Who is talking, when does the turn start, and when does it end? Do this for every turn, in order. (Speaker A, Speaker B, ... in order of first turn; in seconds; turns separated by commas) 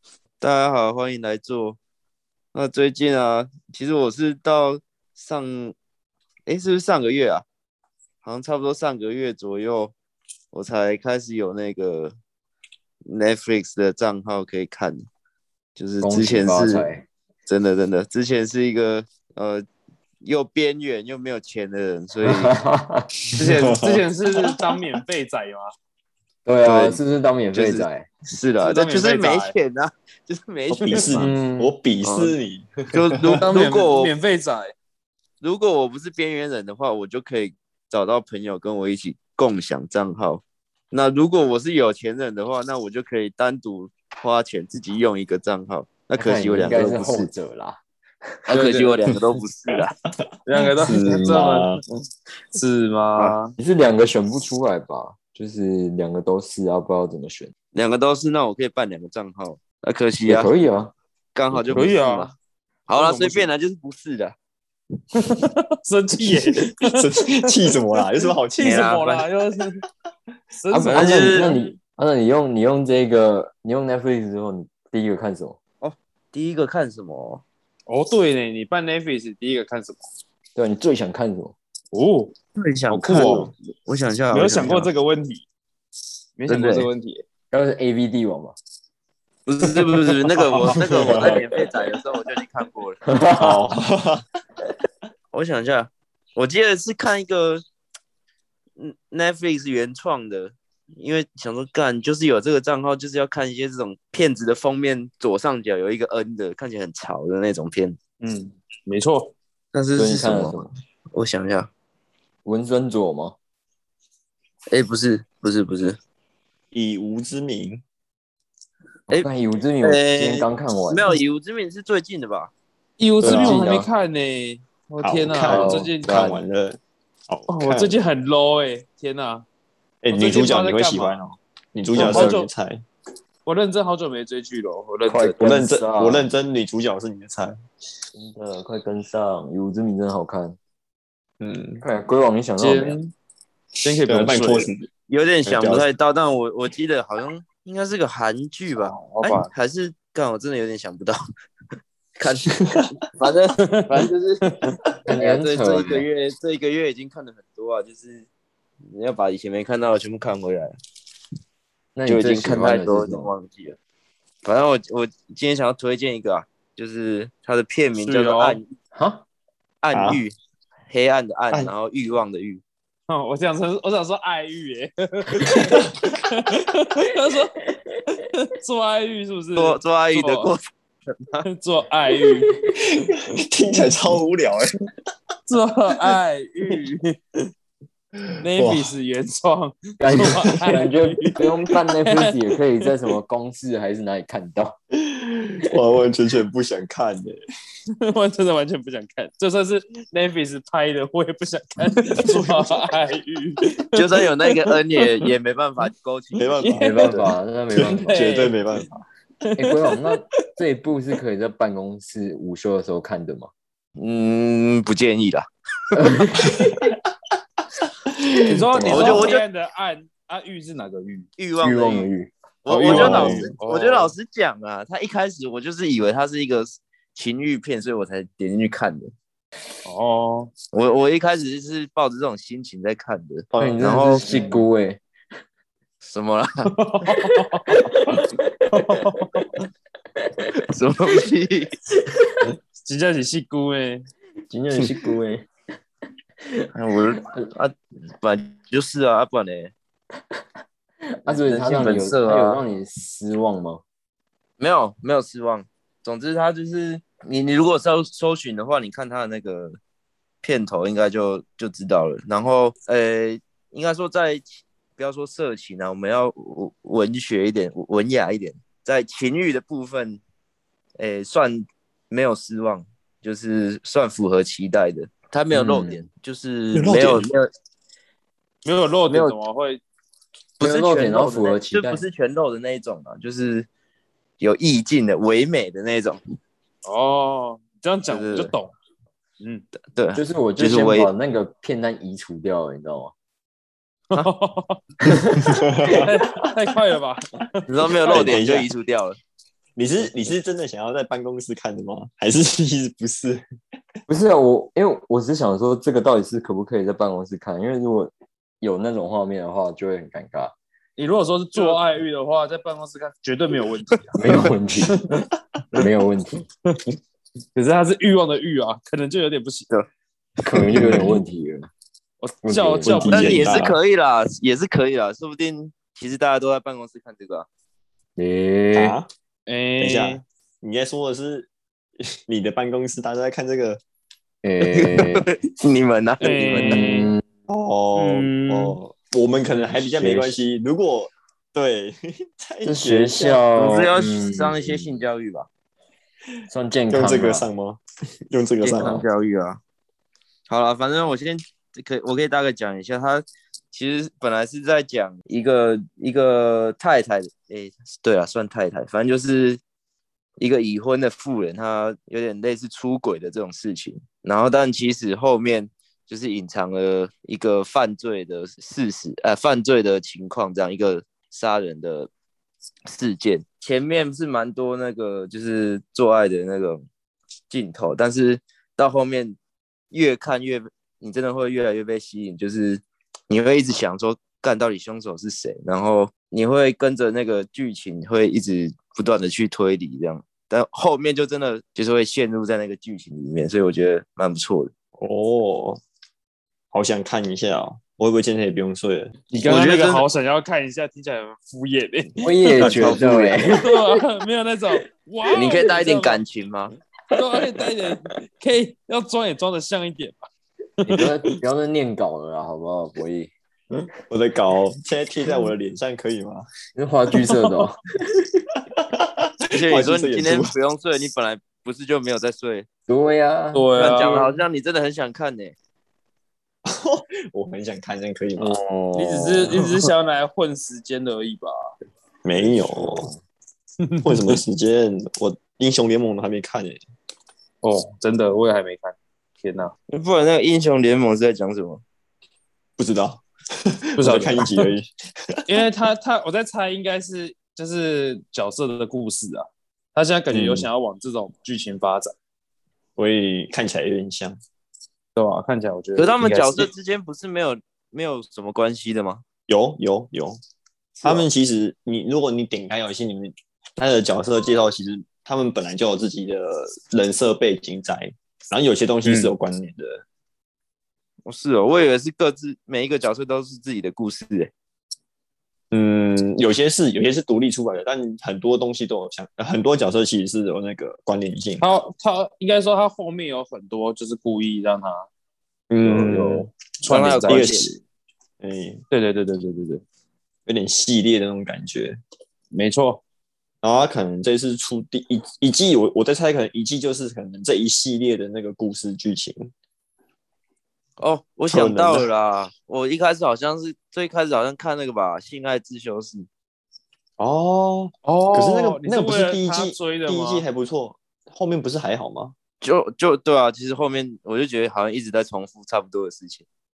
Speaker A: 0.4-1.8, Speaker A: 2.5-5.8, Speaker A: 6.5-7.5, Speaker A: 8.2-9.9, Speaker A: 10.5-12.2, Speaker A: 13.1-15.0, Speaker A: 15.8-16.9, Speaker B: 16.0-17.1, Speaker A: 17.5-19.7, Speaker A: 20.2-22.6, Speaker B: 22.2-23.2, Speaker C: 23.3-24.8, Speaker D: 23.4-25.7, Speaker B: 26.5-28.1, Speaker A: 26.6-27.0, Speaker A: 27.5-31.2, Speaker D: 28.6-29.6, Speaker C: 30.7-33.4, Speaker D: 31.2-31.4, Speaker B: 31.2-31.7, Speaker A: 32.0-32.4, Speaker A: 32.9-34.1, Speaker D: 33.4-34.7, Speaker A: 35.4-47.3, Speaker B: 46.2-47.8, Speaker A: 48.5-50.0, Speaker D: 48.5-49.0, Speaker D: 50.5-51.7, Speaker C: 50.6-51.8, Speaker D: 52.5-53.6, Speaker B: 53.6-57.5, Speaker A: 57.7-60.5, Speaker B: 60.3-60.9, Speaker A: 61.4-62.3, Speaker B: 61.5-61.9, Speaker D: 61.7-62.3, Speaker A: 62.9-64.4, Speaker D: 62.9-63.5, Speaker D: 65.2-67.1, Speaker C: 66.2-69.0, Speaker D: 68.6-69.8, Speaker A: 68.6-69.3, Speaker D: 70.6-71.7, Speaker B: 70.7-75.6, Speaker A: 70.9-71.5, Speaker A: 75.8-77.4, Speaker D: 77.9-80.0, Speaker B: 80.5-81.5, Speaker D: 81.9-82.3, Speaker A: 82.6-84.9, Speaker D: 82.9-83.5, Speaker C: 83.1-83.5, Speaker D: 84.3-85.4, Speaker D: 86.4-87.2, Speaker A: 86.5-86.9, Speaker B: 87.5-88.6, Speaker A: 89.5-93.0, Speaker C: 90.6-91.5, Speaker B: 93.1-93.7, Speaker C: 93.4-94.2, Speaker A: 95.3-97.6, Speaker A: 98.8-108.0, Speaker D: 108.2-109.3, Speaker A: 109.7-111.7, Speaker B: 110.0-110.7, Speaker B: 112.5-113.4, Speaker A: 114.7-116.0, Speaker C: 116.7-117.8, Speaker B: 119.1-121.1, Speaker A: 119.8-122.5, Speaker D: 123.0-126.4, Speaker C: 123.2-123.6, Speaker B: 123.2-123.9, Speaker C: 125.0-128.0, Speaker B: 125.5-125.9, Speaker D: 127.5-129.4, Speaker C: 130.0-132.8, Speaker D: 130.1-131.2, Speaker B: 131.9-132.3, Speaker D: 131.9-132.5, Speaker D: 133.5-135.4, Speaker B: 135.1-136.3, Speaker C: 135.4-137.6, Speaker B: 138.1-140.6, Speaker C: 141.4-141.8, Speaker B: 141.8-143.0, Speaker D: 142.6-143.1, Speaker D: 143.8-144.7, Speaker C: 144.0-144.9, Speaker A: 145.1-151.2, Speaker C: 145.5-145.9, Speaker D: 148.8-149.5, Speaker A: 152.2-154.6, Speaker C: 152.6-152.9, Speaker D: 153.6-154.8, Speaker B: 155.1-156.1, Speaker A: 155.1-158.3, Speaker A: 158.9-160.7, Speaker B: 161.9-163.3, Speaker A: 162.1-163.8, Speaker A: 164.4-168.7, Speaker D: 168.0-168.6, Speaker B: 168.9-169.2, Speaker A: 169.8-170.3, Speaker C: 169.9-170.2, Speaker A: 170.9-172.6, Speaker D: 173.1-180.5, Speaker C: 175.4-176.3, Speaker A: 179.6-181.5, Speaker D: 181.5-182.5, Speaker C: 182.8-184.9, Speaker D: 185.5-187.2, Speaker D: 188.4-191.4, Speaker C: 188.5-188.9, Speaker B: 190.0-194.8, Speaker D: 192.1-192.9, Speaker C: 195.0-197.4, Speaker D: 198.0-204.2, Speaker C: 202.2-202.8, Speaker A: 203.9-207.2, Speaker C: 206.3-206.9, Speaker D: 206.6-207.3, Speaker B: 206.8-208.3, Speaker D: 207.8-208.8, Speaker C: 208.1-209.1, Speaker D: 209.4-210.2, Speaker B: 209.6-213.5, Speaker A: 214.0-216.1, Speaker B: 216.0-216.9, Speaker C: 216.4-217.0, Speaker C: 218.1-218.4, Speaker D: 218.5-221.3, Speaker B: 218.5-219.3, Speaker A: 218.9-219.4, Speaker A: 221.4-222.1, Speaker B: 221.6-223.5, Speaker A: 222.7-229.1, Speaker D: 222.8-224.1, Speaker C: 222.9-223.4, Speaker D: 229.8-230.5, Speaker A: 230.7-234.3, Speaker C: 233.5-234.0, Speaker B: 233.6-235.0, Speaker A: 236.1-236.7, Speaker D: 236.7-239.5, Speaker B: 237.7-239.0, Speaker A: 240.7-241.7, Speaker D: 242.8-244.1, Speaker B: 244.5-245.5, Speaker A: 246.7-249.7, Speaker B: 251.2-253.8, Speaker A: 251.3-252.0, Speaker D: 251.6-252.6, Speaker A: 254.6-259.8, Speaker A: 260.4-270.2, Speaker A: 271.0-277.5, Speaker B: 275.5-276.0, Speaker C: 276.8-277.3, Speaker D: 278.6-279.8, Speaker B: 280.6-282.0, Speaker A: 280.6-283.7, Speaker A: 284.4-286.2, Speaker D: 286.9-288.7, Speaker A: 288.1-288.5, Speaker D: 289.4-289.7, Speaker A: 289.9-291.1, Speaker B: 290.1-293.1, Speaker D: 294.1-294.9, Speaker B: 295.0-296.1, Speaker C: 295.4-296.1, Speaker D: 296.0-298.4, Speaker A: 297.7-299.2, Speaker C: 298.1-298.7, Speaker C: 299.8-303.4, Speaker B: 304.1-310.5, Speaker D: 311.0-315.9, Speaker B: 314.1-315.0, Speaker B: 315.8-316.5, Speaker D: 317.6-319.7, Speaker A: 320.4-320.9, Speaker B: 320.4-321.7, Speaker C: 320.8-321.1, Speaker D: 322.2-323.7, Speaker B: 322.4-323.4, Speaker C: 322.8-323.8, Speaker A: 323.1-327.5, Speaker B: 328.2-329.0, Speaker C: 328.8-329.1, Speaker D: 329.5-330.2, Speaker C: 329.8-331.5, Speaker C: 332.0-333.8, Speaker B: 334.4-335.3, Speaker A: 334.6-336.8, Speaker D: 336.2-337.1, Speaker B: 336.5-337.2, Speaker C: 337.5-343.4, Speaker D: 337.9-338.8, Speaker B: 340.0-340.4, Speaker B: 342.6-345.0, Speaker A: 343.5-345.5, Speaker B: 346.5-347.5, Speaker C: 346.9-349.0, Speaker A: 348.6-349.6, Speaker B: 348.8-349.1, Speaker A: 350.5-359.6, Speaker A: 360.4-372.1, Speaker A: 372.9-376.9, Speaker A: 377.5-379.4, Speaker A: 379.9-394.7, Speaker C: 395.0-395.8, Speaker C: 396.7-399.7, Speaker D: 399.3-402.5, Speaker A: 399.4-400.0, Speaker B: 402.2-404.0, Speaker A: 402.6-403.4, Speaker C: 402.6-403.1, Speaker D: 403.6-406.2, Speaker A: 405.3-406.7, Speaker D: 407.1-410.2, Speaker B: 407.2-407.6, Speaker B: 410.8-413.3, Speaker D: 410.8-411.4, Speaker C: 413.7-416.4, Speaker B: 416.8-418.4, Speaker D: 417.2-417.6, Speaker C: 418.7-420.5, Speaker A: 419.6-422.7, Speaker B: 422.9-424.3, Speaker D: 423.5-424.3, Speaker A: 423.8-425.6, Speaker C: 426.6-428.6, Speaker B: 428.4-429.6, Speaker D: 428.9-431.5, Speaker A: 429.5-429.8, Speaker C: 432.2-433.1, Speaker B: 432.4-433.2, Speaker D: 433.8-434.4, Speaker C: 434.1-436.8, Speaker D: 437.6-439.7, Speaker A: 439.9-441.8, Speaker C: 442.8-445.4, Speaker D: 444.0-444.7, Speaker D: 445.5-452.1, Speaker C: 450.3-450.7, Speaker C: 453.0-454.4, Speaker D: 455.2-456.7, Speaker A: 456.0-459.2, Speaker C: 459.5-460.4, Speaker C: 461.0-470.0, Speaker D: 469.1-469.3, Speaker A: 471.2-474.5, Speaker C: 475.7-481.7, Speaker D: 481.6-485.1, Speaker C: 485.7-486.5, Speaker D: 485.9-487.6, Speaker A: 486.9-487.7, Speaker C: 487.3-487.7, Speaker C: 488.4-488.8, Speaker D: 488.9-489.8, Speaker C: 490.5-492.0, Speaker D: 492.5-493.0, Speaker C: 493.6-499.5, Speaker A: 501.0-506.3, Speaker C: 501.5-502.1, Speaker C: 507.2-512.3, Speaker D: 508.0-510.4, Speaker A: 512.6-516.5